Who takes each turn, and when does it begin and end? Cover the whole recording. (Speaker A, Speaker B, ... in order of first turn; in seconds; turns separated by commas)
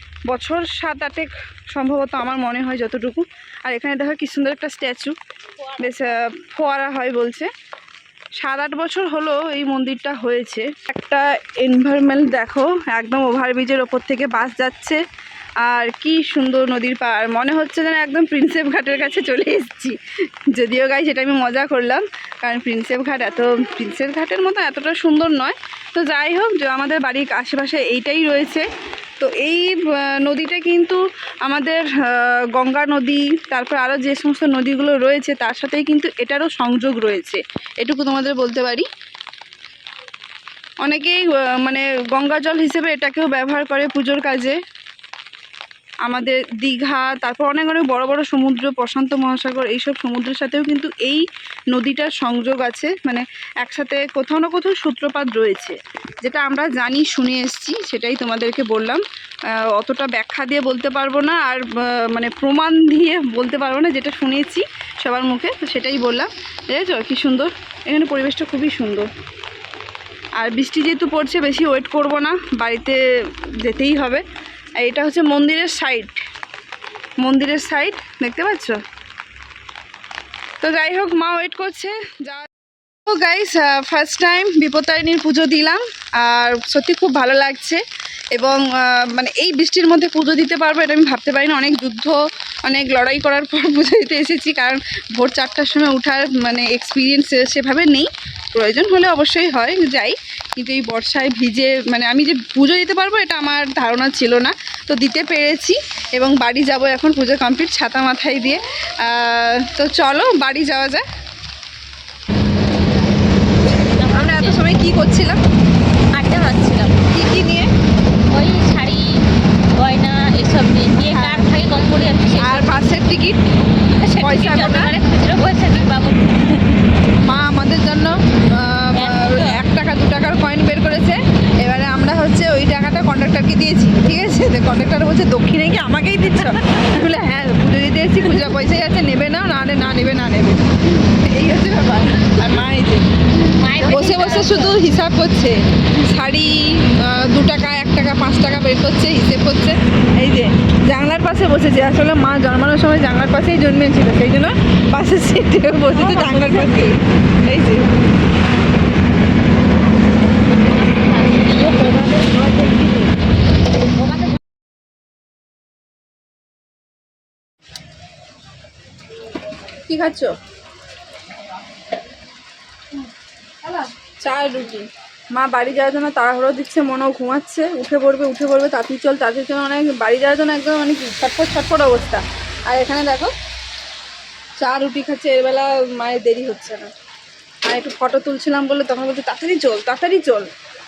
Speaker A: 0.3-5.2, Speaker A: 5.8-7.5, Speaker A: 8.4-15.0, Speaker A: 15.6-20.0, Speaker A: 20.5-28.7, Speaker A: 29.2-38.9, Speaker A: 40.8-44.6, Speaker A: 46.1-59.0, Speaker A: 59.6-69.1, Speaker A: 70.4-74.2, Speaker A: 74.8-76.2, Speaker A: 77.2-78.8, Speaker A: 80.6-82.5, Speaker A: 83.1-111.0, Speaker B: 113.9-114.7, Speaker A: 114.1-115.4, Speaker B: 116.1-117.0, Speaker A: 117.1-117.7, Speaker B: 118.3-119.2, Speaker B: 119.8-122.8, Speaker A: 121.1-121.6, Speaker A: 122.4-123.4, Speaker B: 124.0-126.7, Speaker A: 124.2-125.0, Speaker A: 127.2-143.0, Speaker B: 128.9-129.6, Speaker B: 143.6-144.8, Speaker A: 143.8-157.9, Speaker B: 155.9-156.9, Speaker B: 160.9-163.1, Speaker B: 164.0-164.3, Speaker A: 169.8-170.3, Speaker A: 173.7-183.3, Speaker A: 184.6-186.9, Speaker A: 187.7-190.5